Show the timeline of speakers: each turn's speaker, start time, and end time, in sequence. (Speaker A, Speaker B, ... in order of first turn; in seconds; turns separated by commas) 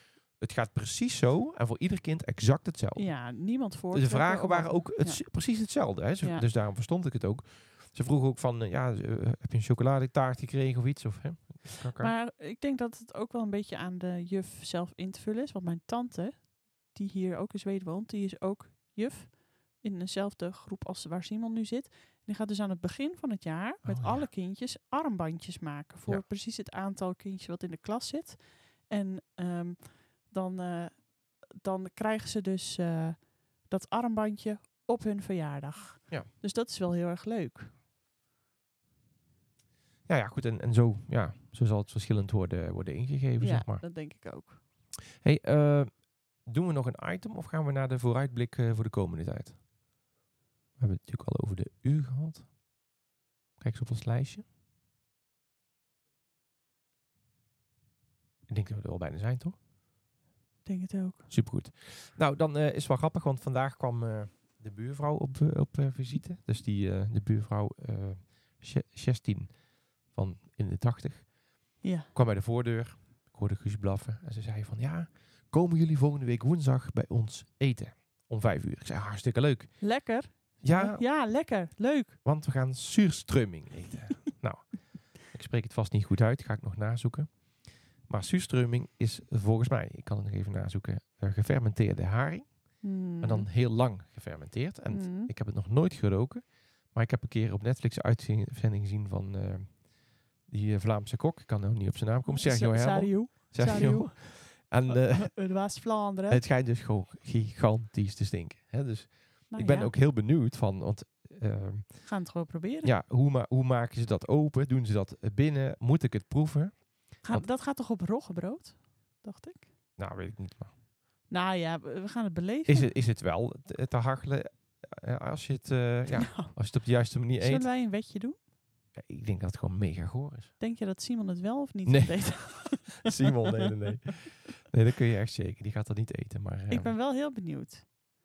Speaker A: 0.4-3.1, Speaker B: 3.0-5.3, Speaker A: 3.9-12.1, Speaker B: 6.2-6.5, Speaker B: 12.0-37.7, Speaker A: 23.8-24.3, Speaker A: 40.1-43.8, Speaker B: 43.4-44.6, Speaker A: 45.1-49.6, Speaker A: 50.8-52.5, Speaker A: 53.6-54.5, Speaker A: 58.5-59.6, Speaker B: 60.6-61.3, Speaker A: 61.3-69.5, Speaker A: 70.1-71.3, Speaker B: 71.8-72.1, Speaker A: 72.1-79.8, Speaker B: 79.8-82.2, Speaker A: 80.6-81.0, Speaker A: 82.2-87.3, Speaker A: 88.1-92.5, Speaker B: 92.8-93.5, Speaker A: 93.2-99.8, Speaker B: 94.9-95.3, Speaker A: 100.5-105.5, Speaker B: 102.3-106.4, Speaker A: 106.3-112.1, Speaker B: 109.5-109.9, Speaker B: 112.0-112.9, Speaker A: 112.8-117.5, Speaker B: 117.2-119.7, Speaker A: 120.0-120.7, Speaker B: 121.3-122.9, Speaker A: 122.7-127.7, Speaker B: 126.2-126.5, Speaker B: 127.4-128.4, Speaker A: 128.9-130.5, Speaker B: 130.6-133.7, Speaker A: 131.9-136.9, Speaker B: 136.7-137.8